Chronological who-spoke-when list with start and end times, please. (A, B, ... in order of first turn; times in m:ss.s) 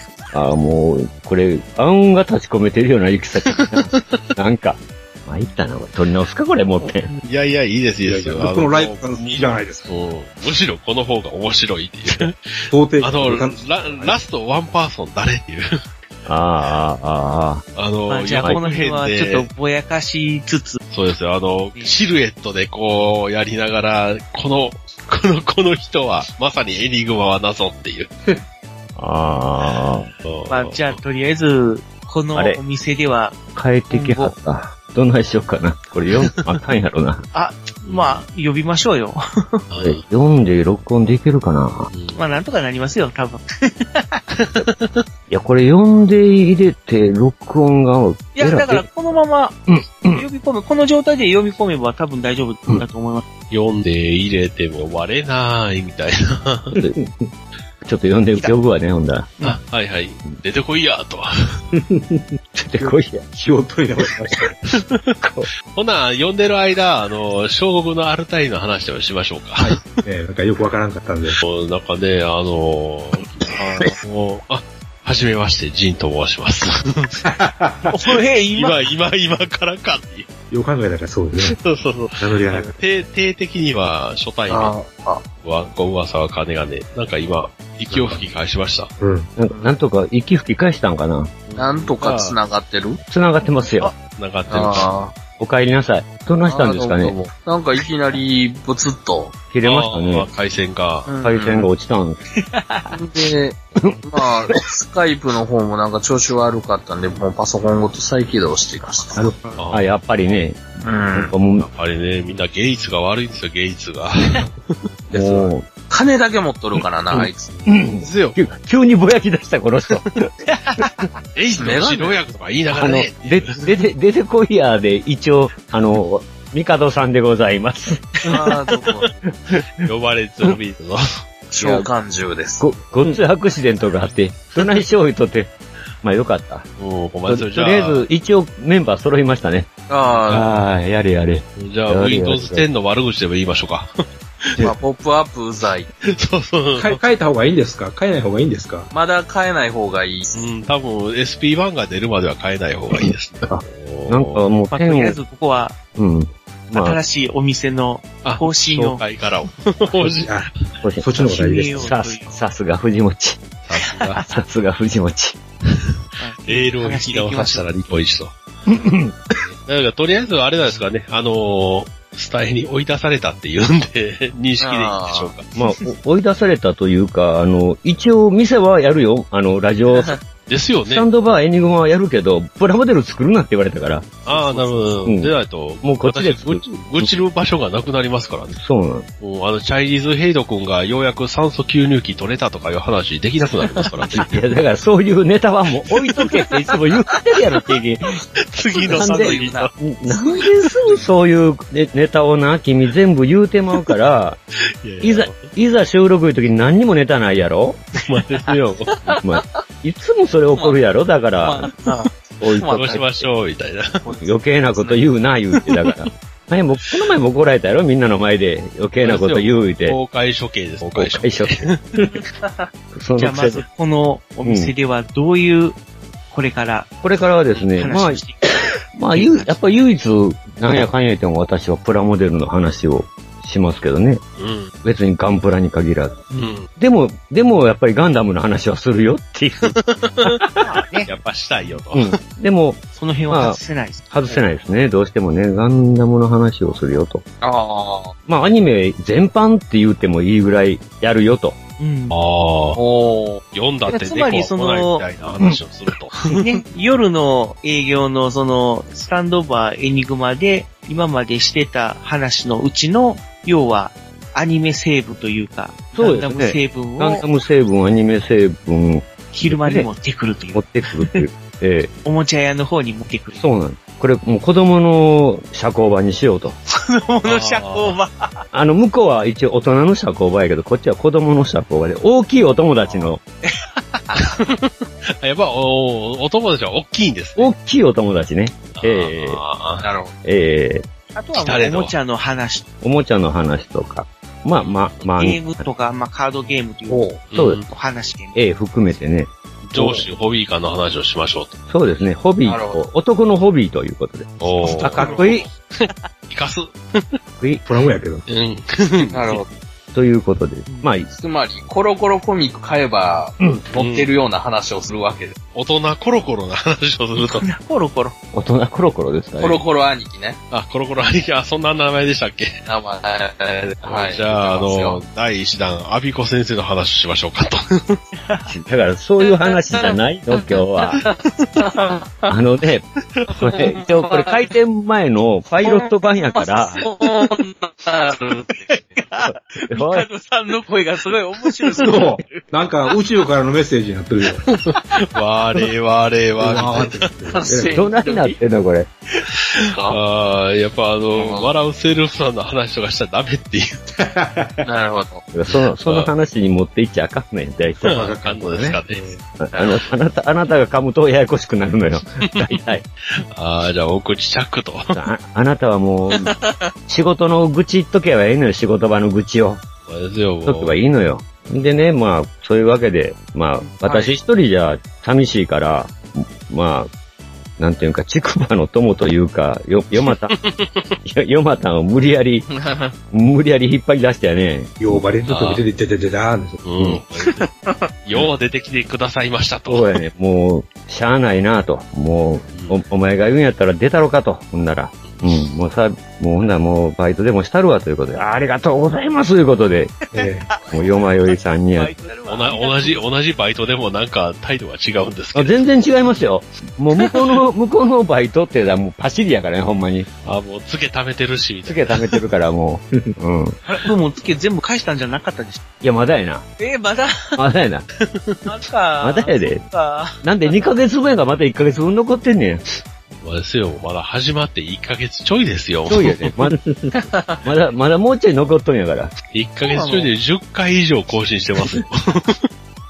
0:00.3-0:07.1 A
0:03.5-0:04.0 B
0:07.2-0:15.7 B
0:08.0-0:09.9 C
0:12.7-0:14.2 C
0:16.3-0:17.6 A
0:17.8-0:19.5 B
0:18.1-0:20.8 D
0:20.9-0:28.1 B
0:29.0-0:30.1 A
0:30.2-0:31.0 B
0:30.5-0:33.4 D
0:32.4-0:32.6 A
0:33.5-0:37.2 A
0:33.9-0:34.4 D
0:37.3-0:39.6 D
0:37.8-0:38.2 B
0:39.7-0:40.0 B
0:39.8-0:41.9 A
0:41.9-0:42.2 B
0:42.1-0:44.2 D
0:44.4-0:45.0 B
0:45.3-0:48.9 A
0:48.4-0:49.6 D
0:49.7-0:50.2 A
0:50.1-0:53.2 D
0:53.5-0:56.8 B
0:56.7-0:57.0 A
0:57.8-0:59.3 A
0:59.4-1:01.6 B
1:01.7-1:04.6 C
1:02.6-1:03.2 A
1:04.7-1:05.2 B
1:05.2-1:05.5 A
1:05.7-1:09.8 B
1:09.6-1:11.4 C
1:11.4-1:17.2 B
1:17.2-1:18.0 C
1:17.9-1:18.8 D
1:18.6-1:20.3 B
1:20.5-1:21.6 C
1:21.4-1:24.8 B
1:22.2-1:22.8 C
1:24.5-1:25.2 E
1:25.4-1:28.9 B
1:28.0-1:28.3 C
1:29.0-1:29.3 C
1:29.4-1:31.3 A
1:31.5-1:32.4 B
1:31.6-1:33.0 E
1:33.1-1:33.9 A
1:34.0-1:34.9 B
1:34.5-1:35.1 E
1:35.4-1:37.1 A
1:36.5-1:39.4 E
1:39.5-1:40.3 A
1:39.6-1:41.1 B
1:41.1-1:41.7 E
1:41.2-1:42.2 A
1:42.4-1:43.0 D
1:42.9-1:43.6 E
1:43.8-1:44.3 A
1:44.1-1:49.6 E
1:49.6-1:50.4 B
1:49.7-1:50.6 A
1:50.8-1:51.3 E
1:51.2-1:51.7 A
1:51.6-1:54.5 B
1:55.1-1:55.5 C
1:55.1-1:55.7 A
1:55.9-1:57.5 E
1:57.1-2:00.3 A
1:58.0-1:58.4 B
2:00.5-2:00.9 D
2:01.4-2:03.6 B
2:01.6-2:02.2 E
2:02.7-2:08.6 A
2:08.2-2:09.1 E
2:09.3-2:09.9 A
2:09.9-2:11.2 B
2:11.5-2:12.7 E
2:11.6-2:11.9 A
2:12.6-2:15.5 A
2:16.0-2:16.7 A
2:16.8-2:18.1 B
2:17.3-2:19.7 A
2:19.9-2:20.5 E
2:20.3-2:22.7 A
2:21.6-2:23.9 B
2:24.6-2:25.9 E
2:26.0-2:27.0 B
2:26.8-2:28.9 C
2:28.9-2:30.4 E
2:30.3-2:34.5 B
2:34.1-2:35.2 A
2:34.7-2:35.8 D
2:36.0-2:37.0 A
2:36.7-2:39.0 D
2:38.2-2:40.3 B
2:40.1-2:40.5 C
2:40.8-2:43.4 A
2:41.0-2:41.9 C
2:41.2-2:42.4 D
2:43.7-2:44.2 B
2:43.8-2:44.3 D
2:44.3-2:45.4 A
2:46.2-2:47.7 D
2:46.5-2:48.4 B
2:48.7-2:49.2 A
2:49.4-2:55.4 B
2:54.6-2:55.3 E
2:55.6-3:00.2 A
2:59.9-3:00.2 E
3:00.5-3:01.1 B
3:00.8-3:04.1 A
3:04.3-3:08.6 B
3:04.3-3:04.9 E
3:05.1-3:07.1 A
3:08.6-3:09.1 A
3:09.2-3:14.4 B
3:14.1-3:18.2 A
3:18.5-3:19.7 B
3:18.8-3:19.7 E
3:18.9-3:24.4 A
3:24.8-3:25.5 B
3:25.0-3:27.8 A
3:28.1-3:29.2 B
3:29.2-3:31.7 A
3:31.4-3:33.0 E
3:32.4-3:33.2 A
3:32.8-3:34.0 B
3:34.2-3:40.0 A
3:39.0-3:41.8 B
3:40.9-3:41.7 A
3:42.1-3:42.7 E
3:42.9-3:43.6 A
3:43.2-3:45.8 D
3:44.4-3:44.7 A
3:46.3-3:46.9 D
3:47.0-3:48.2 A
3:47.6-3:49.8 D
3:49.0-3:54.2 A
3:54.4-3:54.7 B
3:54.8-4:00.7 A
3:56.3-3:56.6 D
3:56.4-3:56.6 B
3:59.6-4:00.4 B
4:00.6-4:01.1 D
4:01.1-4:02.1 B
4:01.9-4:03.6 A
4:02.9-4:04.1 D
4:04.1-4:07.2 A
4:07.4-4:08.1 E
4:08.3-4:11.6 A
4:11.8-4:12.2 D
4:12.1-4:12.8 B
4:12.8-4:13.4 E
4:13.5-4:16.4 B
4:13.9-4:15.1 D
4:16.3-4:27.2 D
4:26.0-4:29.9 A
4:29.3-4:31.2 D
4:30.5-4:31.9 A
4:32.0-4:33.5 D
4:33.4-4:36.6 A
4:36.7-4:38.4 D
4:37.2-4:38.0 B
4:38.5-4:43.2 A
4:43.5-4:44.3 D
4:44.2-4:47.5 B
4:47.4-4:49.4 A
4:48.7-4:49.9 B
4:49.8-4:50.1 E
4:50.2-4:50.9 A
4:51.1-4:52.6 D
4:51.4-4:52.0 B
4:52.8-4:55.6 A
4:54.6-4:55.0 B
4:55.2-4:57.1 D
4:56.9-4:57.2 C
4:57.3-4:57.7 B
4:57.3-4:57.6 A
4:57.7-4:58.4 D
4:58.4-5:00.1 A
4:59.7-5:01.6 B
5:01.7-5:04.5 A
5:02.4-5:02.9 E
5:04.4-5:07.2 B
5:04.6-5:05.3 C
5:04.8-5:05.9 D
5:05.0-5:05.5 A
5:07.6-5:08.2 C
5:08.3-5:09.4 B
5:09.1-5:09.5 E
5:09.9-5:11.1 A
5:10.7-5:11.0 D
5:11.1-5:15.4 E
5:13.8-5:14.1 B
5:15.5-5:17.5 B
5:17.2-5:18.2 D
5:18.3-5:19.6 A
5:19.4-5:20.4 E
5:20.5-5:22.6 B
5:22.7-5:25.0 E
5:23.8-5:28.0 B
5:28.2-5:28.5 D
5:28.5-5:31.0 A
5:31.6-5:32.3 E
5:32.3-5:36.8 A
5:33.5-5:34.3 E
5:36.5-5:37.0 D
5:36.8-5:38.7 E
5:38.6-5:42.5 D
5:39.3-5:40.1 A
5:41.8-5:44.4 C
5:44.5-5:47.1 B
5:46.4-5:47.8 C
5:47.3-5:48.4 E
5:47.7-5:48.9 A
5:49.6-5:53.8 B
5:51.2-5:51.5 E
5:54.0-5:54.7 C
5:54.6-5:55.2 E
5:55.3-5:58.0 A
5:55.8-5:56.1 B
5:57.8-5:59.2 C
5:57.8-5:59.1 B
5:59.4-6:02.8 A
5:59.5-5:59.8 E
6:02.2-6:02.6 B
6:03.2-6:05.0 B
6:04.9-6:06.3 A
6:06.1-6:06.6 E
6:06.9-6:09.6 A
6:09.9-6:10.8 B
6:10.5-6:16.9 A
6:13.8-6:14.2 E
6:17.6-6:20.3 A
6:20.1-6:20.9 B
6:21.0-6:22.5 A
6:22.5-6:22.9 E
6:23.1-6:25.0 A
6:24.8-6:26.6 C
6:25.3-6:25.6 B
6:26.6-6:27.5 B
6:28.1-6:29.9 B
6:29.7-6:39.9 A
6:32.5-6:32.8 B
6:40.1-6:40.5 C
6:40.2-6:41.0 D
6:40.7-6:41.9 A
6:41.7-6:43.1 D
6:42.3-6:45.6 B
6:45.3-6:50.1 A
6:50.2-6:52.2 B
6:51.7-6:53.6 A
6:53.7-6:55.6 D
6:55.8-6:56.4 A
6:56.6-6:57.4 D
6:57.4-6:57.9 A
6:58.0-6:58.4 B
6:58.5-7:00.2 D
6:59.0-6:59.6 A
7:00.2-7:02.6 A
7:03.2-7:06.4 B
7:05.9-7:09.1 A
7:07.0-7:07.4 E
7:09.3-7:12.4 B
7:09.7-7:10.1 E